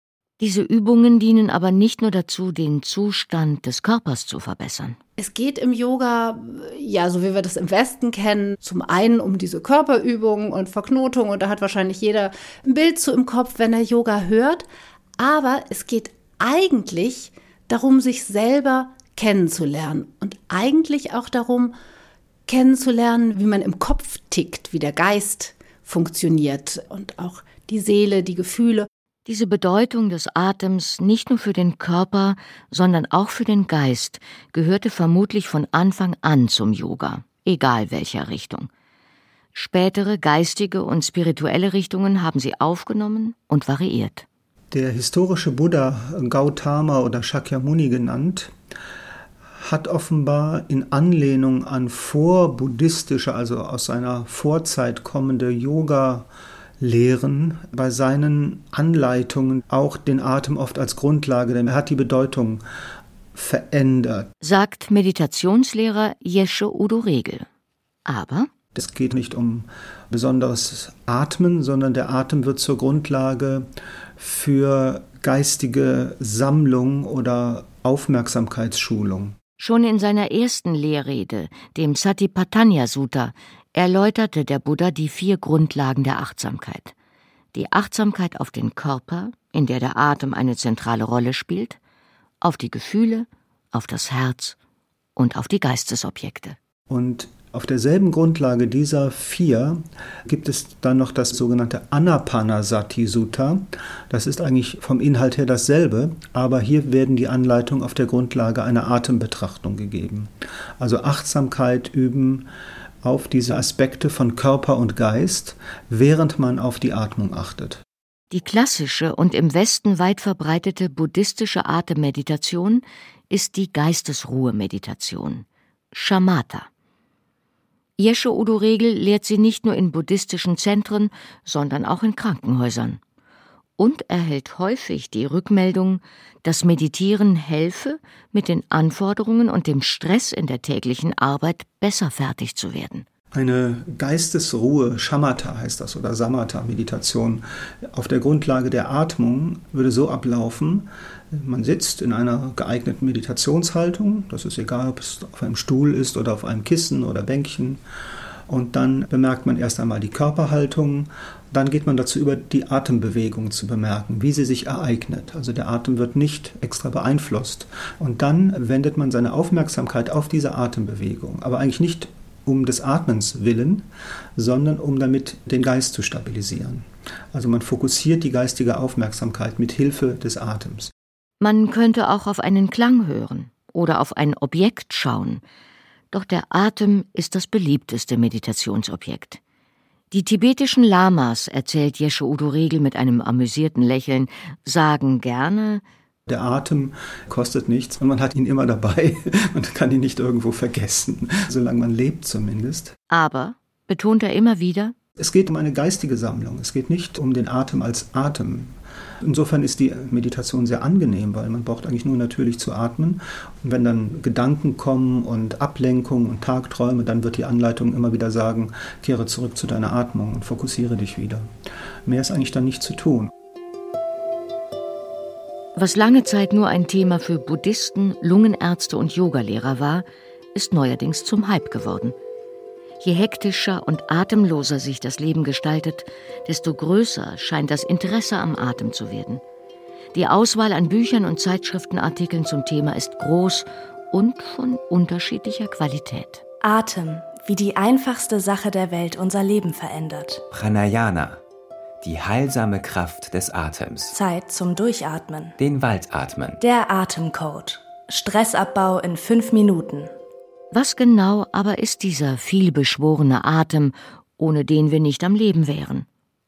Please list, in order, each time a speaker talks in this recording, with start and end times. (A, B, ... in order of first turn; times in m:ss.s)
0:00.4-0:05.0 A
0:05.2-0:14.6 B
0:15.2-0:21.7 B
0:22.5-0:28.9 B
0:29.2-0:38.7 A
0:39.5-0:44.2 A
0:44.7-0:48.5 C
0:49.6-0:56.3 C
0:56.8-1:02.6 C
1:03.3-1:04.3 C
1:04.4-1:07.4 A
1:08.1-1:08.5 A
1:08.7-1:13.7 C
1:14.2-1:19.4 C
1:19.6-1:26.9 A
1:27.5-1:31.8 A
1:32.4-1:34.6 A
1:35.2-1:36.6 A
1:36.9-1:52.5 C
1:53.0-1:57.8 C
1:58.3-2:06.7 A
2:08.0-2:13.0 A
2:13.8-2:23.0 A
2:23.3-2:37.8 C
2:38.5-3:00.9 C
3:01.4-3:05.4 A
3:06.1-3:09.4 A
3:10.1-3:15.8 A
3:16.3-3:22.9 C
3:23.1-3:24.9 A
3:25.2-3:41.5 C
3:42.0-3:43.3 C
3:45.7-3:52.1 A
3:53.0-3:59.4 A
4:00.1-4:06.4 A
4:06.6-4:10.4 D
4:10.5-4:11.4 E
4:12.0-4:14.2 E
4:14.1-4:15.6 D
4:15.6-4:16.6 E
4:16.6-4:20.1 D
4:20.7-4:26.1 A